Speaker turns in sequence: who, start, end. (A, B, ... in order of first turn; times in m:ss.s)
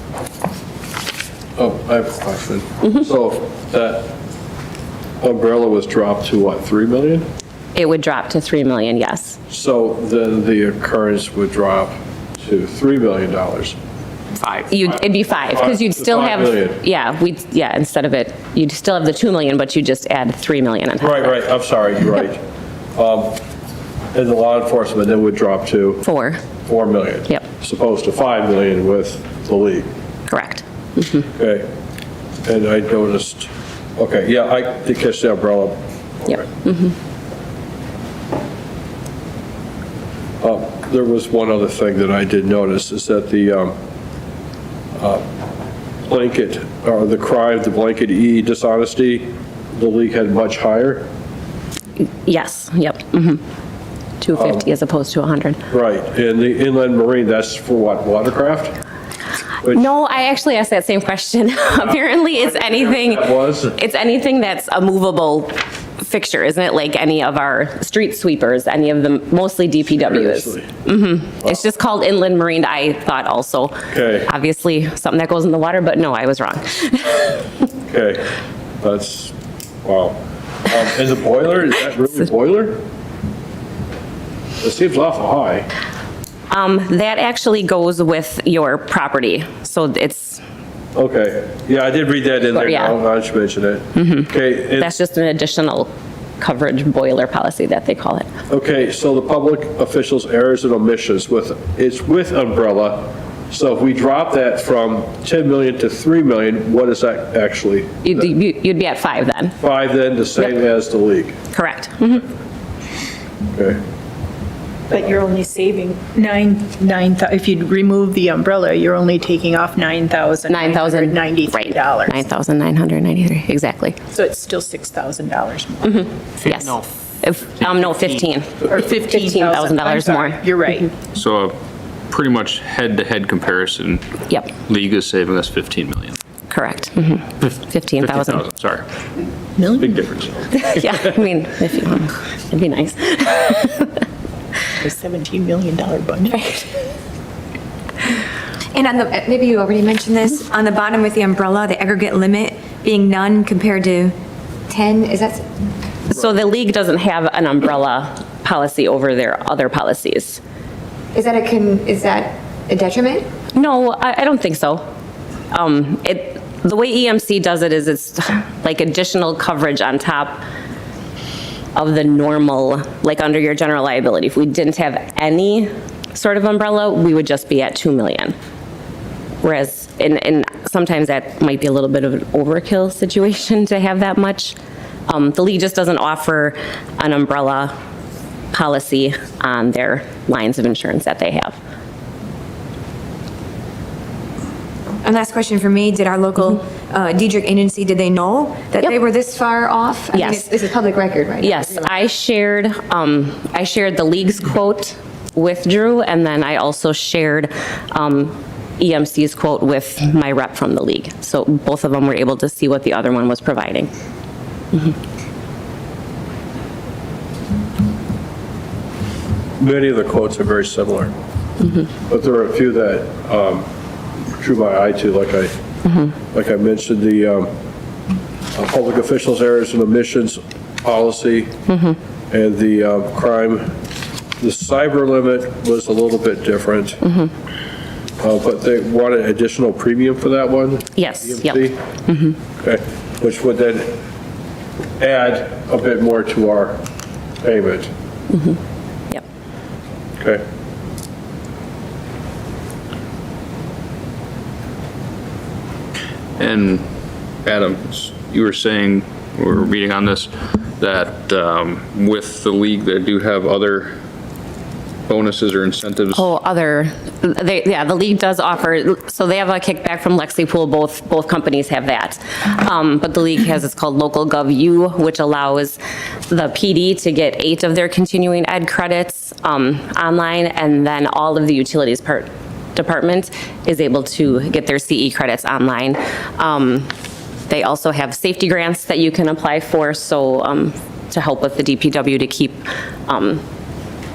0:01.6-0:04.1 A
0:05.2-0:07.3 A
0:07.7-0:09.4 B
0:09.5-0:13.8 A
0:14.5-0:21.2 B
0:15.3-0:16.8 A
0:21.0-0:22.4 A
0:23.0-0:23.4 A
0:24.1-0:26.0 A
0:26.0-0:26.4 B
0:26.6-0:29.9 A
0:30.3-0:31.3 B
0:31.3-0:31.7 A
0:32.4-0:36.5 A
0:36.6-0:36.9 B
0:40.4-0:43.7 A
0:45.0-0:45.2 A
0:46.0-0:51.0 A
0:52.2-0:53.4 B
0:54.2-0:55.6 B
0:54.3-0:54.6 A
0:55.7-0:58.8 A
0:59.7-1:17.4 B
1:02.2-1:03.7 A
1:09.9-1:10.7 A
1:13.9-1:14.3 A
1:17.8-1:18.3 A
1:18.8-1:22.8 A
1:24.6-1:25.7 A
1:26.5-1:30.4 B
1:30.9-1:34.9 A
1:32.6-1:33.0 B
1:34.8-1:38.3 B
1:38.5-1:48.2 A
1:48.0-1:49.6 B
1:49.6-1:51.4 A
1:51.5-1:52.2 B
1:53.5-1:53.8 A
1:54.9-2:02.2 C
2:00.5-2:04.0 B
2:04.1-2:06.1 C
2:06.0-2:10.4 B
2:08.7-2:10.9 C
2:11.1-2:11.6 D
2:12.1-2:16.2 D
2:16.5-2:18.4 B
2:18.1-2:18.8 D
2:19.6-2:20.2 C
2:19.8-2:20.4 D
2:20.5-2:24.0 B
2:24.8-2:26.7 C
2:28.7-2:34.1 E
2:34.7-2:35.4 E
2:36.1-2:40.4 B
2:41.1-2:43.2 E
2:43.5-2:44.8 B
2:45.5-2:50.4 B
2:51.8-2:58.3 B
2:59.4-3:04.6 B
3:05.1-3:07.7 B
3:08.5-3:11.6 B
3:15.0-3:21.9 E
3:20.1-3:20.5 B
3:21.4-3:33.9 B
3:39.6-3:41.1 A
3:42.1-3:43.7 A
3:44.4-3:45.5 A
3:46.3-3:47.5 A
3:48.5-3:51.5 A
3:52.3-3:53.7 A
3:54.4-3:57.1 A
3:58.2-4:01.8 A
4:01.0-4:02.4 B
4:02.6-4:04.0 A
4:05.0-4:06.8 A
4:07.4-4:07.9 A
4:10.2-4:10.4 A
4:16.4-4:16.9 D
4:17.4-4:24.0 D
4:25.1-4:26.3 D
4:26.1-4:46.9 B
4:47.5-4:53.4 B